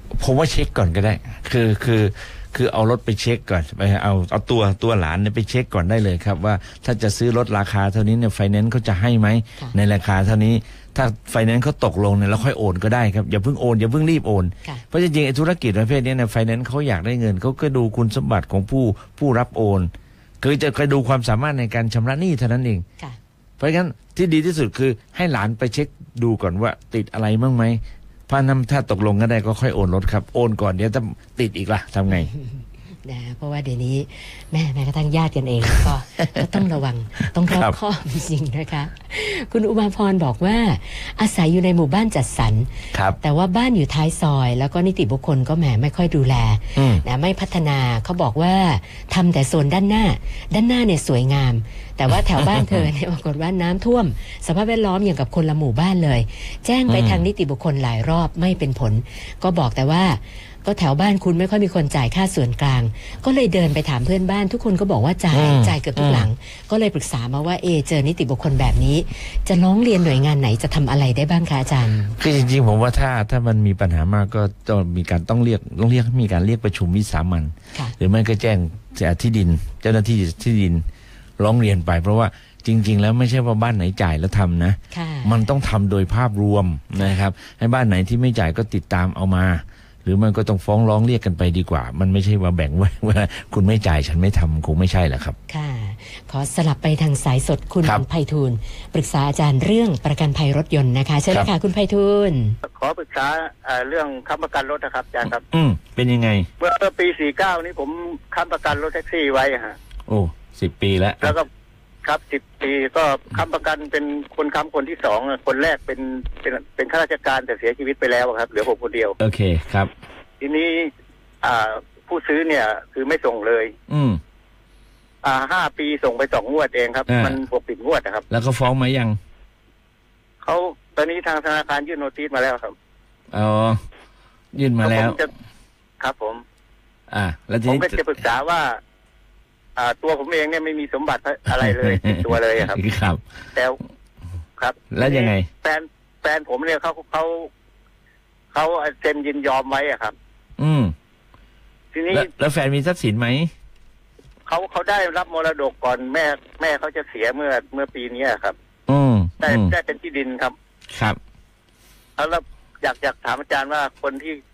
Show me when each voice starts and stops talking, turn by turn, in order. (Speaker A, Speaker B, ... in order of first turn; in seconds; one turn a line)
Speaker A: 0.2-19.9
Speaker A: 20.4-22.8
Speaker A: 23.6-32.3
Speaker B: 32.1-72.2
Speaker A: 37.5-37.8
Speaker A: 46.8-47.0
Speaker A: 52.4-52.9
Speaker A: 56.9-57.2
Speaker A: 65.3-66.3
Speaker A: 72.1-80.8
Speaker A: 81.4-95.3
Speaker B: 84.9-85.5
Speaker B: 95.5-102.6
Speaker C: 102.6-105.4
Speaker A: 105.2-106.5
Speaker C: 106.6-109.8
Speaker A: 110.1-111.3
Speaker C: 111.2-111.5
Speaker C: 112.0-119.2
Speaker A: 119.2-119.9
Speaker C: 120.4-120.9
Speaker C: 121.4-123.7
Speaker A: 123.9-124.2
Speaker C: 125.2-128.2
Speaker A: 127.1-127.4
Speaker A: 128.3-129.2
Speaker C: 130.4-132.7
Speaker A: 133.3-133.8
Speaker A: 134.5-135.2
Speaker C: 134.8-135.3
Speaker C: 136.0-136.4
Speaker A: 137.1-138.0
Speaker C: 137.6-138.8
Speaker C: 139.8-142.8
Speaker A: 141.5-143.2
Speaker C: 143.5-143.8
Speaker C: 144.6-147.5
Speaker A: 144.9-145.5
Speaker C: 148.5-150.1
Speaker A: 150.6-150.9
Speaker C: 151.9-152.3
Speaker A: 152.1-153.5
Speaker C: 154.5-158.5
Speaker A: 158.9-159.7
Speaker C: 159.4-160.5
Speaker A: 160.9-161.2
Speaker C: 162.2-164.4